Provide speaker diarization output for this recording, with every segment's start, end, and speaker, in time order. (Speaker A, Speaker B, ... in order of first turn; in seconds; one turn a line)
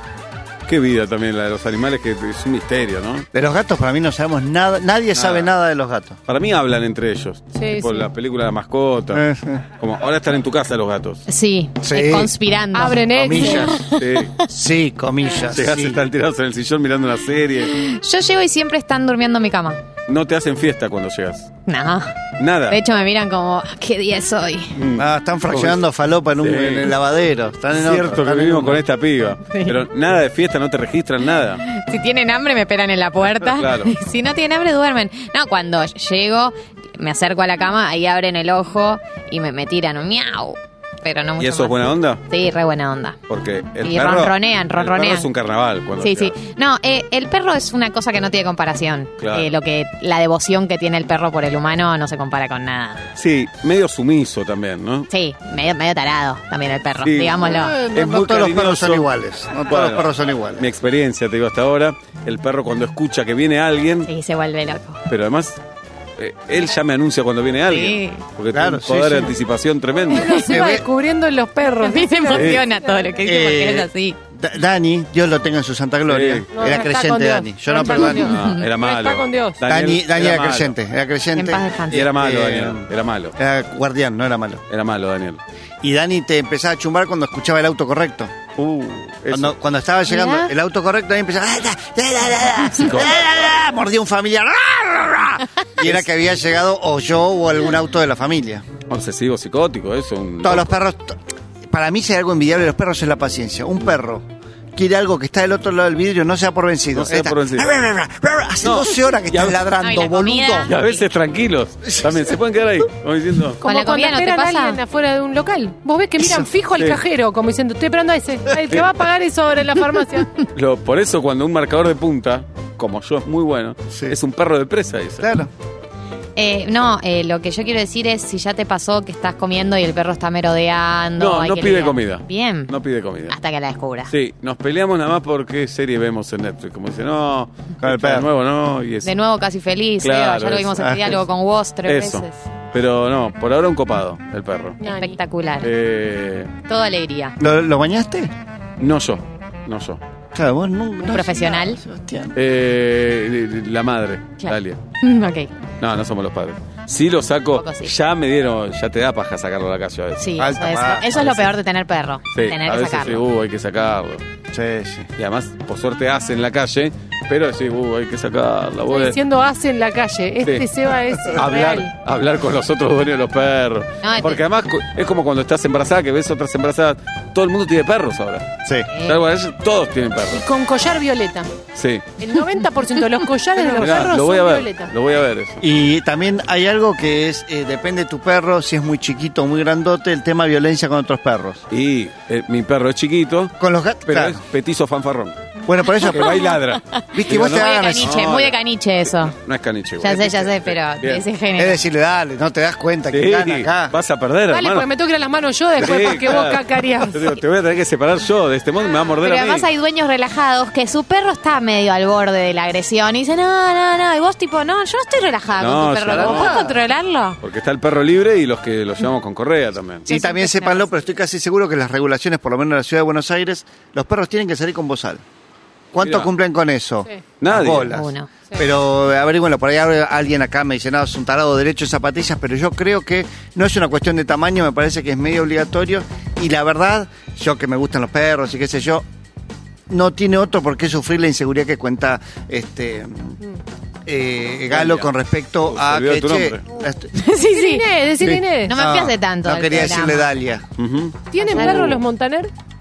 Speaker A: 0.7-3.3
Speaker B: 3.3-6.2
Speaker A: 5.2-5.5
Speaker A: 6.3-9.2
Speaker C: 7.6-8.1
Speaker B: 9.1-9.7
Speaker A: 9.8-11.2
Speaker D: 11.3-14.4
Speaker B: 11.8-12.3
Speaker C: 12.7-13.8
Speaker B: 13.1-13.8
Speaker A: 14.0-14.3
Speaker B: 14.5-16.0
Speaker A: 15.5-17.8
Speaker D: 17.7-19.8
Speaker A: 20.1-21.5
Speaker D: 21.7-22.2
Speaker A: 22.4-22.8
Speaker D: 22.7-24.8
Speaker A: 24.8-25.8
Speaker B: 24.9-28.8
Speaker A: 26.4-26.9
Speaker A: 27.7-31.6
Speaker D: 29.5-29.8
Speaker D: 31.7-43.2
Speaker A: 33.3-33.9
Speaker A: 41.4-42.2
Speaker A: 43.3-46.3
Speaker D: 43.8-45.3
Speaker D: 46.0-53.1
Speaker A: 49.2-49.5
Speaker A: 53.2-55.1
Speaker D: 55.1-57.8
Speaker A: 57.0-59.1
Speaker B: 57.5-60.7
Speaker A: 59.7-64.1
Speaker D: 64.1-65.0
Speaker A: 65.1-65.6
Speaker A: 66.2-70.5
Speaker D: 67.7-68.2
Speaker B: 68.5-69.3
Speaker C: 70.1-73.2
Speaker B: 70.4-70.8
Speaker D: 71.8-74.2
Speaker A: 72.3-72.6
Speaker B: 73.2-78.3
Speaker A: 76.1-76.5
Speaker C: 76.5-79.6
Speaker A: 77.9-80.8
Speaker D: 78.2-78.7
Speaker B: 79.7-84.6
Speaker D: 81.3-82.1
Speaker A: 81.9-83.3
Speaker A: 84.7-85.4
Speaker B: 85.8-88.3
Speaker A: 88.6-89.5
Speaker B: 89.3-98.7
Speaker D: 90.1-90.5
Speaker A: 92.8-93.1
Speaker A: 98.9-100.8
Speaker B: 100.4-101.2
Speaker B: 101.7-110.7
Speaker A: 106.9-107.7
Speaker A: 108.6-109.6
Speaker D: 109.8-111.0
Speaker A: 110.6-113.6
Speaker B: 111.9-112.2
Speaker C: 113.6-120.4
Speaker D: 113.6-114.8
Speaker B: 116.2-116.5
Speaker A: 116.8-117.0
Speaker A: 120.5-125.3
Speaker B: 123.9-124.2
Speaker B: 125.2-125.5
Speaker D: 126.4-132.7
Speaker A: 131.2-133.4
Speaker D: 133.3-134.1
Speaker A: 134.1-139.1
Speaker B: 137.8-138.3
Speaker D: 139.0-142.4
Speaker A: 140.0-141.2
Speaker A: 141.9-144.8
Speaker C: 144.8-145.2
Speaker D: 144.8-145.7
Speaker A: 145.6-146.5
Speaker D: 146.7-147.4
Speaker B: 147.4-148.3
Speaker A: 148.8-150.0
Speaker B: 150.3-152.4
Speaker D: 151.1-151.8
Speaker A: 152.3-154.8
Speaker D: 154.4-155.5
Speaker A: 155.8-160.3
Speaker D: 157.6-157.9
Speaker D: 160.2-163.2
Speaker B: 160.4-161.2
Speaker A: 161.1-161.5
Speaker A: 162.3-164.2
Speaker B: 164.5-165.1
Speaker A: 165.2-169.2
Speaker C: 168.9-171.9
Speaker A: 171.3-178.5
Speaker D: 174.0-174.4
Speaker D: 178.9-179.2
Speaker A: 179.0-180.4
Speaker C: 180.3-181.5
Speaker A: 181.8-182.0
Speaker C: 182.2-184.9
Speaker A: 183.7-185.6
Speaker B: 185.6-191.6
Speaker A: 191.7-195.4
Speaker B: 193.6-194.4
Speaker B: 195.7-196.5
Speaker A: 196.0-201.2
Speaker D: 196.3-199.4
Speaker B: 197.1-198.2
Speaker D: 200.0-201.8
Speaker B: 201.6-204.0
Speaker A: 203.1-204.9
Speaker C: 204.5-207.3
Speaker A: 205.8-209.7
Speaker D: 209.2-217.4
Speaker A: 215.6-216.7
Speaker B: 216.2-216.6
Speaker A: 217.4-220.1
Speaker B: 220.1-225.2
Speaker D: 220.1-220.9
Speaker B: 225.9-239.1
Speaker A: 226.0-226.3
Speaker A: 227.4-227.9
Speaker D: 227.9-228.3
Speaker B: 239.9-243.4
Speaker B: 244.1-247.1
Speaker A: 244.7-245.1
Speaker A: 245.7-246.6
Speaker D: 247.1-247.9
Speaker C: 247.5-248.7
Speaker D: 248.7-250.3
Speaker B: 248.8-250.7
Speaker A: 250.8-252.0
Speaker C: 251.3-252.5
Speaker D: 251.5-251.9